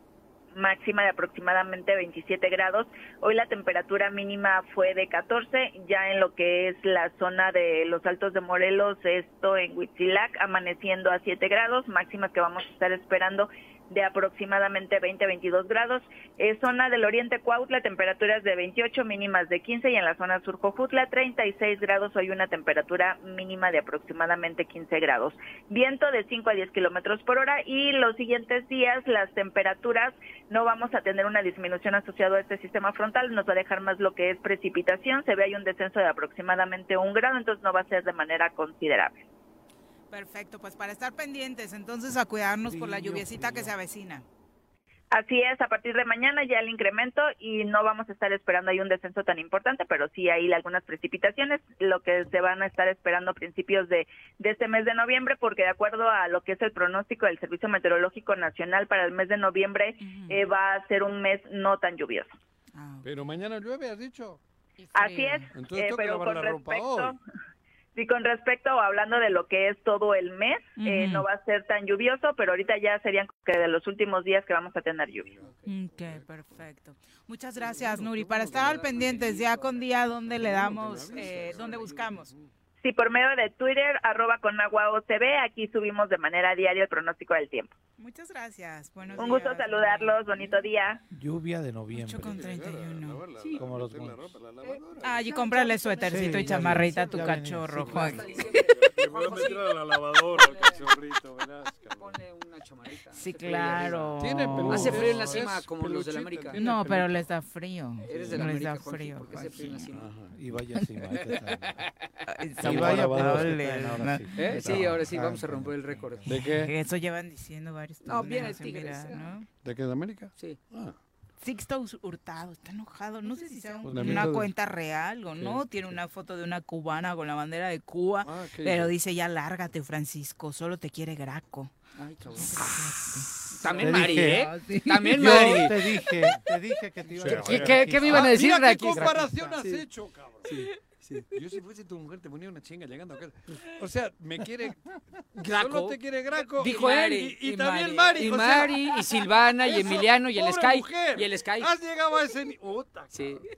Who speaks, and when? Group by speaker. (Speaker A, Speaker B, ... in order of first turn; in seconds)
Speaker A: 0.6-39.2, 45.1-62.3, 64.9-67.2, 67.9-75.3, 82.8-87.7, 89.2-91.0
Speaker B: 40.1-44.2, 60.0-60.4, 62.7-63.1, 65.0-65.5, 70.8-71.3, 75.7-82.3, 88.0-90.2, 91.9-93.2, 95.0-98.2, 103.1-105.4, 106.5-109.9, 112.3-114.2, 116.3-119.5, 121.4-131.7, 132.3-136.1, 147.4-148.3
Speaker C: 42.6-43.7, 91.1-92.5, 93.5-94.4, 96.0-98.2, 110.3-111.8, 112.6-116.4, 123.8-124.5, 133.8-134.4, 135.1-139.6
Speaker D: 63.0-64.4, 65.5-67.2, 75.2-76.6, 77.6-82.5, 89.0-89.4, 92.2-95.1, 97.9-102.2, 103.5-107.3, 108.1-108.5, 109.9-110.3, 112.6-113.6, 114.5-115.0, 116.2-116.7, 119.6-121.0, 123.9-124.3, 128.2-128.9, 137.2-140.5, 141.3-144.8, 145.4-148.9, 149.7-153.4
Speaker E: 78.5-79.7, 80.9-82.1, 93.4-93.7, 94.6-99.7, 100.2-100.9, 101.9-106.6, 108.0-110.1, 111.3-112.1, 114.4-116.3, 118.0-119.3, 123.2-124.0, 131.9-135.8, 137.2-139.8, 140.4-141.3, 145.4-146.0, 146.6-147.4, 148.1-151.7, 153.1-153.4